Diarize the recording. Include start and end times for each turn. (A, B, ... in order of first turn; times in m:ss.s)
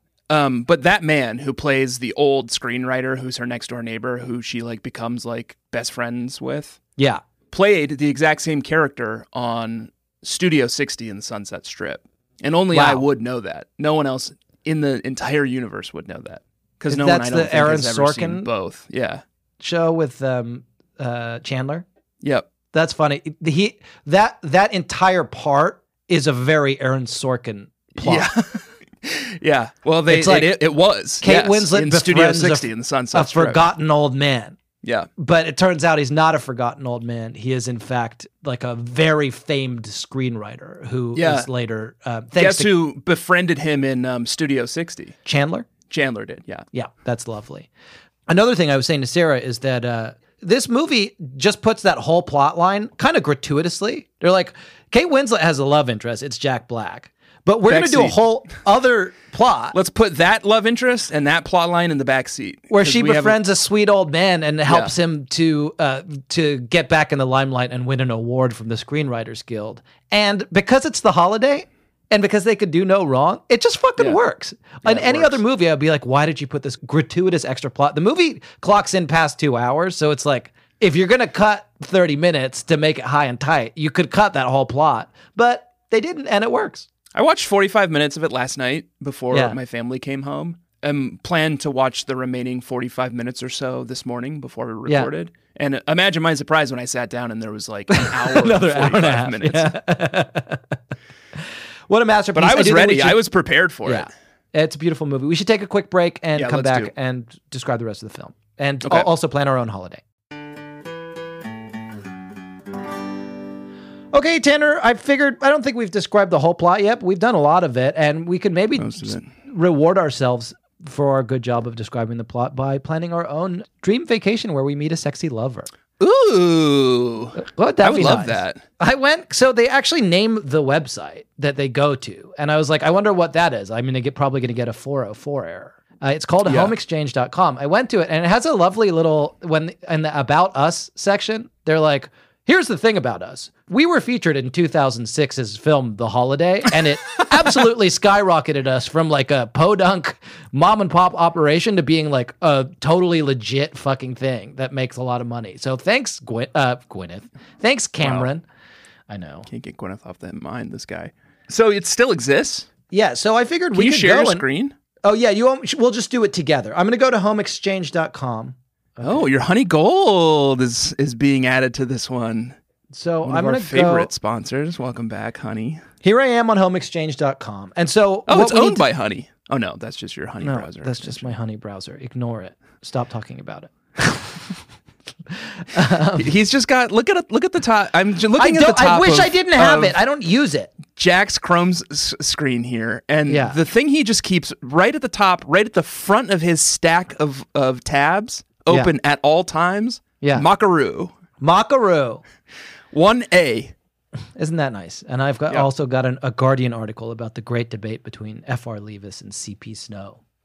0:00.3-0:06.8 A
0:07.0-0:07.2 B
0:07.5-0:19.2 A
0:12.7-0:13.0 B
0:16.9-0:18.5 B
0:19.6-0:21.8 B
0:22.2-0:22.5 A
0:22.7-0:28.3 B
0:28.0-0:33.7 A
0:30.1-0:30.6 B
0:31.2-0:34.6 B
0:34.8-0:35.1 A
0:35.2-0:42.7 B
0:41.1-0:41.5 A
0:42.3-0:45.1 A
0:45.2-0:45.7 B
0:45.9-0:46.6 A
0:46.7-0:47.7 B
0:48.3-0:59.8 B
0:57.7-0:58.2 A
0:59.7-1:03.4 A
1:02.7-1:26.9 B
1:04.7-1:04.9 A
1:14.8-1:15.4 A
1:27.1-1:39.8 A
1:29.3-1:29.6 B
1:34.8-1:35.1 B
1:37.9-1:40.8 B
1:41.3-1:43.2 B
1:42.3-1:44.1 A
1:43.8-1:50.0 B
1:46.4-1:46.9 A
1:48.8-1:49.1 A
1:54.1-2:05.7 B
1:58.8-1:59.3 A
2:06.0-2:08.6 A
2:07.4-2:38.4 B
2:16.4-2:16.7 A
2:38.0-2:38.3 A
2:39.1-2:39.5 B
2:39.5-2:42.7 A
2:42.9-2:44.4 B
2:43.7-2:44.7 A
2:45.0-2:49.3 B
2:49.0-2:52.6 A
2:52.9-2:54.1 B
2:53.2-2:55.8 A
2:56.0-2:58.8 B
2:58.3-3:01.3 A
3:00.4-3:04.6 B
3:05.3-3:06.3 B
3:06.1-3:10.0 A
3:08.4-3:10.8 B
3:10.9-3:21.1 A
3:13.3-3:13.6 B
3:20.2-3:20.5 B
3:21.4-3:22.2 B
3:22.9-3:23.7 A
3:24.4-3:30.2 B